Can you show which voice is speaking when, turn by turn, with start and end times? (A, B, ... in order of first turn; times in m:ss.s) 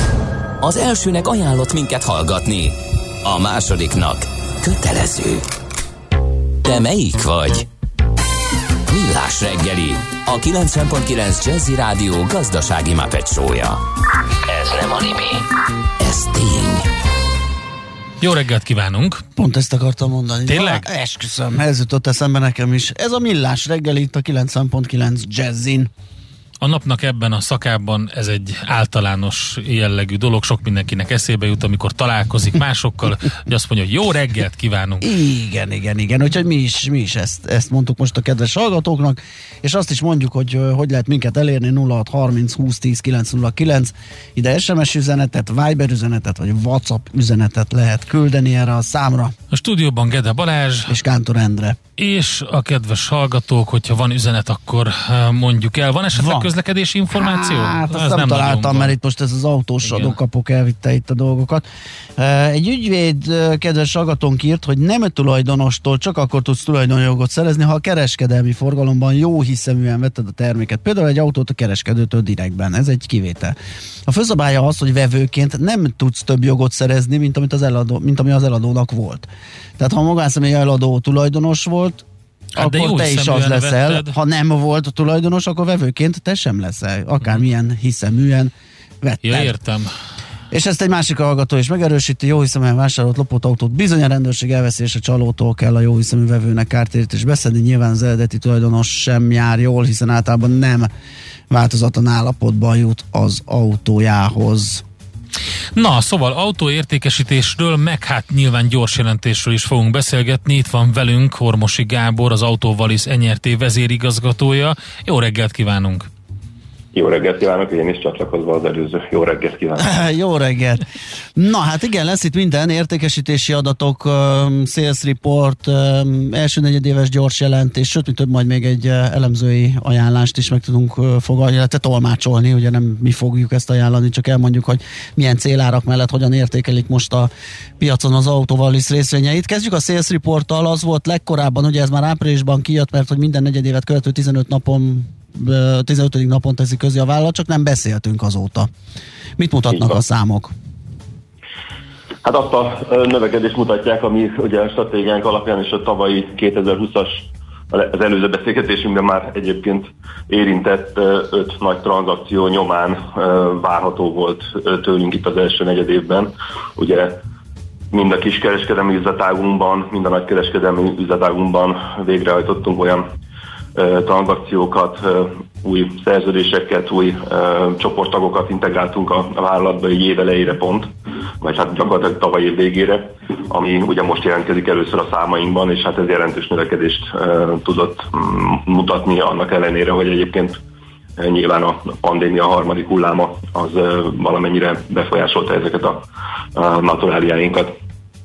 0:00.6-0:05.4 A
0:06.6-0:07.7 A
0:08.9-0:13.8 A
0:14.4-0:15.4 A
0:16.0-0:16.9 A
0:18.2-0:19.2 B
0:19.4-0:25.9 C
0:20.5-0:20.9 B
0:26.6-0:35.1 B
0:35.0-0:49.3 C
0:49.5-0:50.9 B
0:50.9-0:51.8 C
0:52.0-0:58.9 B
0:56.1-0:56.5 C
0:57.1-1:01.6 C
0:59.8-1:00.2 B
1:02.2-1:22.0 C
1:22.6-1:24.1 B
1:22.6-1:29.6 C
1:29.2-1:29.9 B
1:30.5-1:40.9 C
1:41.5-1:44.8 C
1:45.8-1:56.1 B
1:56.9-2:00.0 D
1:59.8-2:00.8 C
2:01.4-2:28.7 C
2:29.4-2:30.5 C
2:32.2-2:47.2 D
2:47.9-2:53.0 D
2:53.8-3:10.6 D
3:11.2-3:17.7 D